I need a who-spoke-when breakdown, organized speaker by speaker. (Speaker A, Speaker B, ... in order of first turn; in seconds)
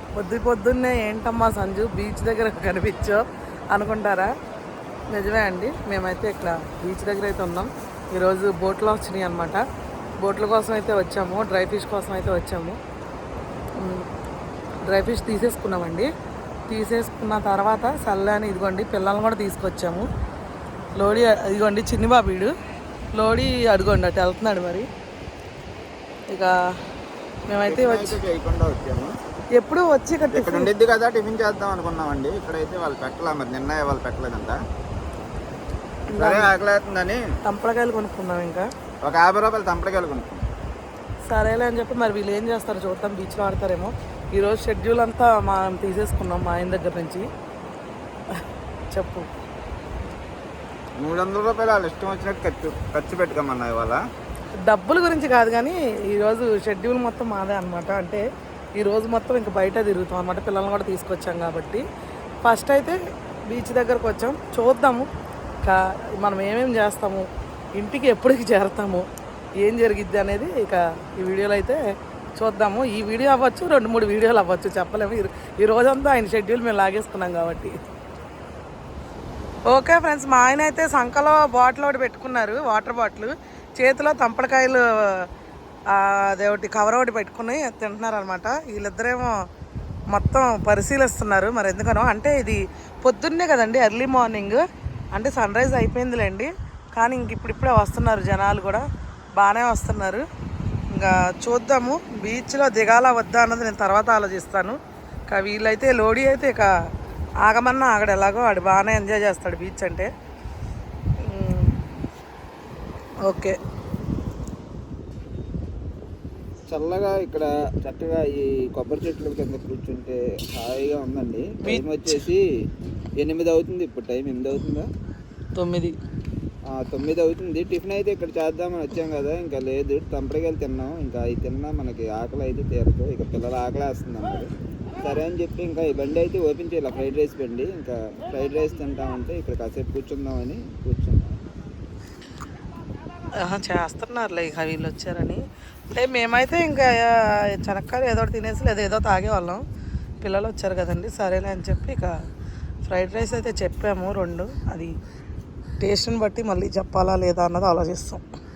Speaker A: 0.1-4.3, 5.1-9.6, 10.2-12.8, 13.8-14.1, 14.9-16.1, 16.7-20.1, 20.9-22.5, 23.1-24.9, 26.3-26.6, 27.5-28.2, 29.6-30.7, 36.1-36.5, 37.5-38.7, 41.3-47.3, 48.4-49.3, 54.6-58.2, 58.8-61.8, 62.4-65.1, 65.6-69.0, 69.6-71.8, 72.4-77.7, 79.7-85.3, 85.9-89.3, 90.1-100.2, 100.9-104.8, 105.3-106.7, 107.4-110.1, 111.2-111.7, 113.2-113.5, 121.6-122.2, 125.5-125.9, 143.3-149.6, 150.2-152.1, 152.9-154.9, 155.8-158.2
Speaker B: 27.6-29.1, 30.3-34.6, 36.1-37.2, 39.0-40.5, 51.0-54.0, 116.7-122.4, 123.2-124.9, 126.7-141.2